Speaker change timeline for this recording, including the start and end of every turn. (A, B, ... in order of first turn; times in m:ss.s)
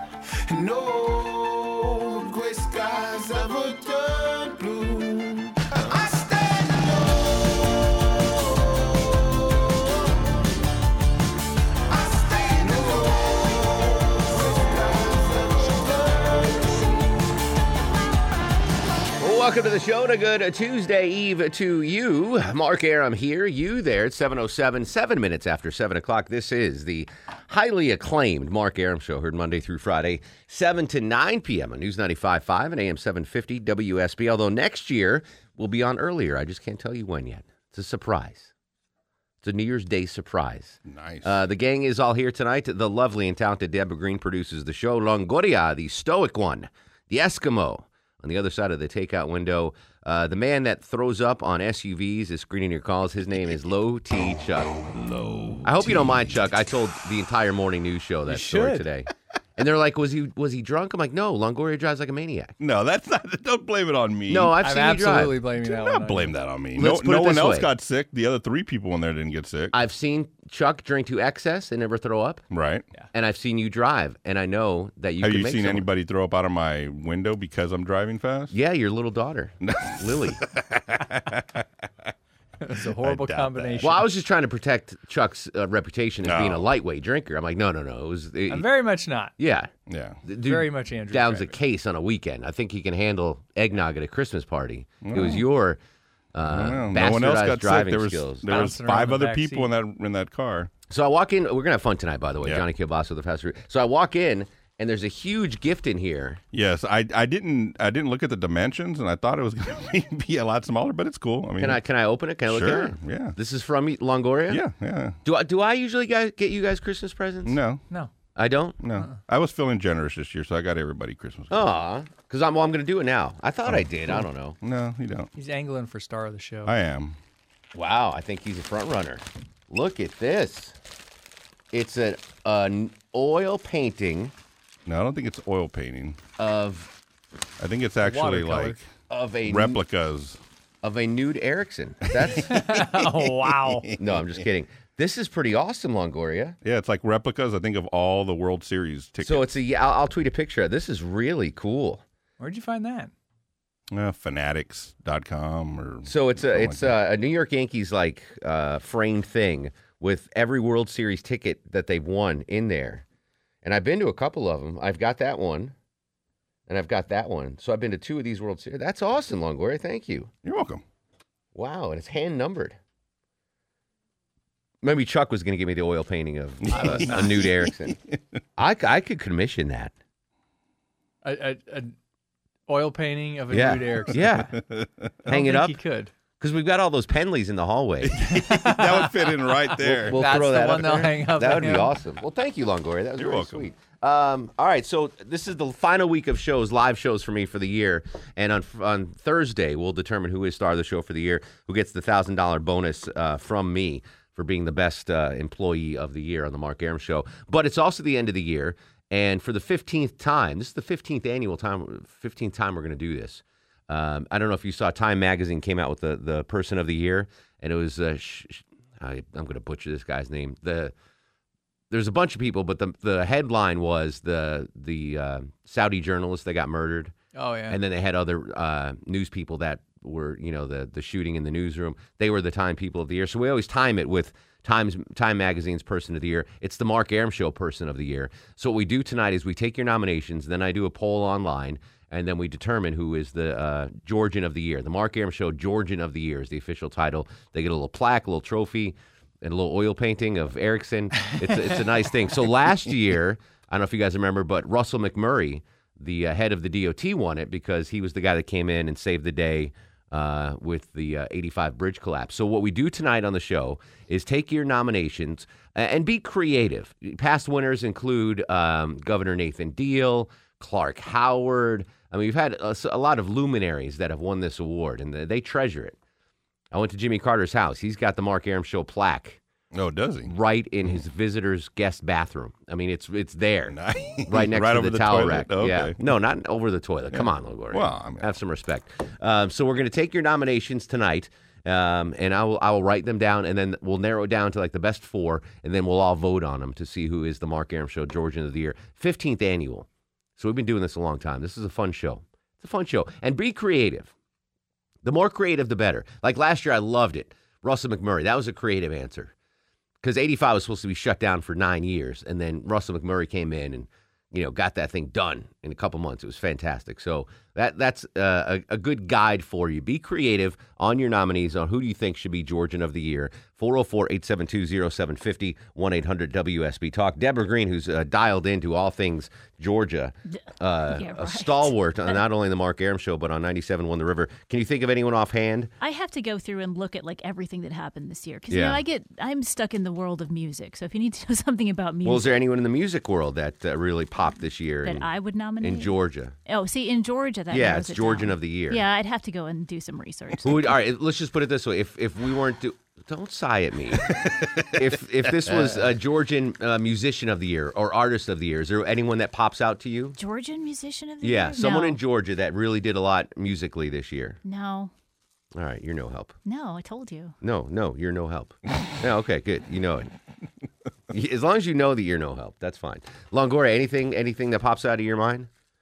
0:00.5-0:10.4 A
0:11.9-0:17.1 A
0:19.2-0:38.5 B
0:39.4-0:54.7 B
0:40.8-0:41.4 C
0:55.1-0:56.0 C
0:55.6-1:02.5 B
0:58.3-0:58.8 D
1:02.6-1:04.5 C
1:04.3-1:05.4 B
1:04.6-1:06.3 D
1:05.6-1:09.7 C
1:06.8-1:07.7 B
1:09.7-1:12.4 B
1:12.5-1:12.9 C
1:13.1-1:15.9 B
1:15.2-1:18.5 C
1:18.5-1:20.4 B
1:19.6-1:21.6 C
1:22.6-1:24.0 D
1:22.8-1:24.0 C
1:23.8-1:28.7 B
1:26.2-1:26.6 C
1:28.5-1:29.3 D
1:29.4-1:29.7 B
1:29.9-1:30.2 C
1:30.2-1:35.8 B
1:30.4-1:31.6 D
1:35.0-1:35.4 C
1:36.3-1:38.5 B
1:36.5-1:40.7 C
1:38.5-1:39.7 D
1:40.9-1:46.4 B
1:46.5-1:51.8 C
1:51.6-1:54.6 B
1:52.5-1:53.3 C
1:54.5-1:55.2 C
1:55.2-1:57.6 B
1:57.4-1:57.8 C
1:58.4-1:58.8 B
1:58.8-2:01.6 C
2:01.5-2:04.6 B
2:03.6-2:05.3 C
2:05.3-2:06.7 D
2:06.6-2:07.2 C
2:07.7-2:10.8 B
2:11.7-2:14.3 B
2:14.8-2:16.2 C
2:16.4-2:16.9 B
2:17.6-2:18.9 C
2:18.0-2:18.8 D
2:19.1-2:19.8 B
2:19.4-2:20.4 C
2:20.8-2:22.7 B
2:22.5-2:23.9 D
2:23.2-2:24.4 C
2:24.0-2:26.6 B
2:26.6-2:29.5 C
2:29.2-2:32.0 B
2:32.4-2:33.1 D
2:33.9-2:36.9 C
2:36.0-2:43.0 B
2:43.6-2:45.7 B
2:46.7-2:50.3 B
2:50.4-2:50.8 C
2:51.5-2:52.8 B
2:54.8-2:58.0 B
2:56.7-2:58.2 C
2:56.7-2:57.3 D
2:58.6-2:59.9 B
3:01.2-3:01.9 D
3:02.7-3:04.3 D
3:03.5-3:04.5 B
3:04.1-3:05.3 C
3:05.3-3:05.8 B
3:05.3-3:06.1 D
3:06.4-3:08.3 B
3:08.1-3:10.6 C
3:08.4-3:12.0 D
3:09.8-3:40.9 B
3:13.2-3:13.7 C
3:41.9-3:47.1 B
3:47.3-3:47.8 D
3:47.7-4:36.0 B
4:36.7-4:39.4 B
4:39.7-4:40.3 C
4:40.2-5:04.1 B
4:43.7-4:46.0 C
4:47.1-4:48.3 C
5:05.0-5:09.3 B
5:10.0-5:35.7 B
5:30.8-5:32.2 E
5:35.8-5:42.4 E
5:38.5-5:38.8 B
5:42.0-5:46.4 B
5:44.8-5:45.9 E
5:46.4-5:50.8 E
5:47.5-5:48.8 B
5:50.4-5:54.1 B
5:54.1-5:54.7 C
5:54.7-6:00.2 B
5:55.4-5:55.9 C
6:00.2-6:02.0 E
6:01.2-6:04.4 B
6:04.4-6:04.9 E
6:05.5-6:06.4 B
6:06.4-6:07.3 E
6:07.4-6:10.1 B
6:11.1-6:15.5 B